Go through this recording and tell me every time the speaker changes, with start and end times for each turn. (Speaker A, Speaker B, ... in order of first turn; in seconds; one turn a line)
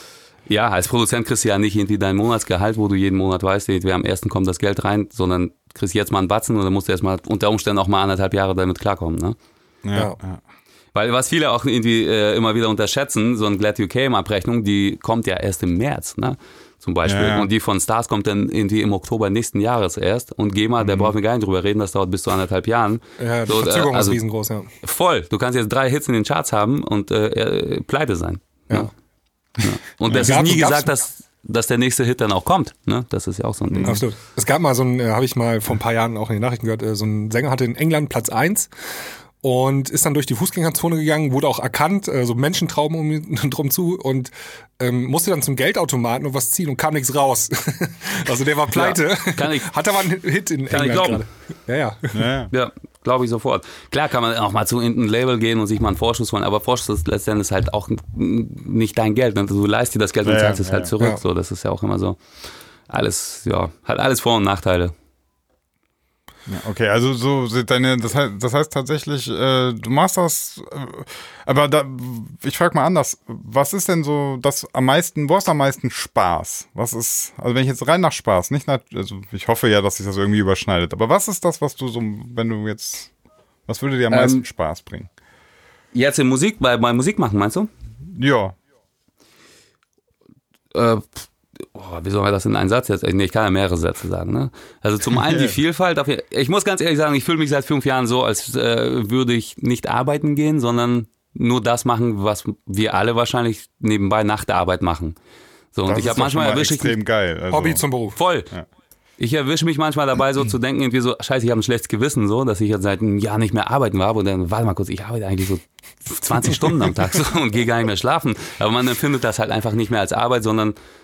Speaker A: 0.5-9.3
Speaker B: 9.8-10.4
Speaker A: 10.9-24.2
Speaker B: 17.1-17.5
Speaker B: 20.8-21.1
Speaker C: 23.2-24.7
Speaker A: 24.8-28.9
Speaker A: 29.6-34.0
Speaker B: 30.1-30.3
Speaker C: 30.1-30.9
Speaker B: 33.7-34.0
Speaker C: 33.8-38.7
Speaker C: 39.4-52.2
Speaker A: 48.7-49.7
Speaker A: 50.7-51.2
Speaker B: 52.1-52.5
Speaker A: 52.5-62.2
Speaker B: 60.2-60.9
Speaker A: 62.9-64.9
Speaker B: 66.5-83.1
Speaker B: 83.7-85.1
Speaker A: 84.1-84.4
Speaker A: 85.9-87.7
Speaker B: 88.1-88.5
Speaker A: 90.7-105.2
Speaker B: 95.1-95.5
Speaker A: 105.7-107.0
Speaker B: 105.9-107.8
Speaker C: 107.5-108.2
Speaker A: 108.2-108.5
Speaker A: 109.2-120.8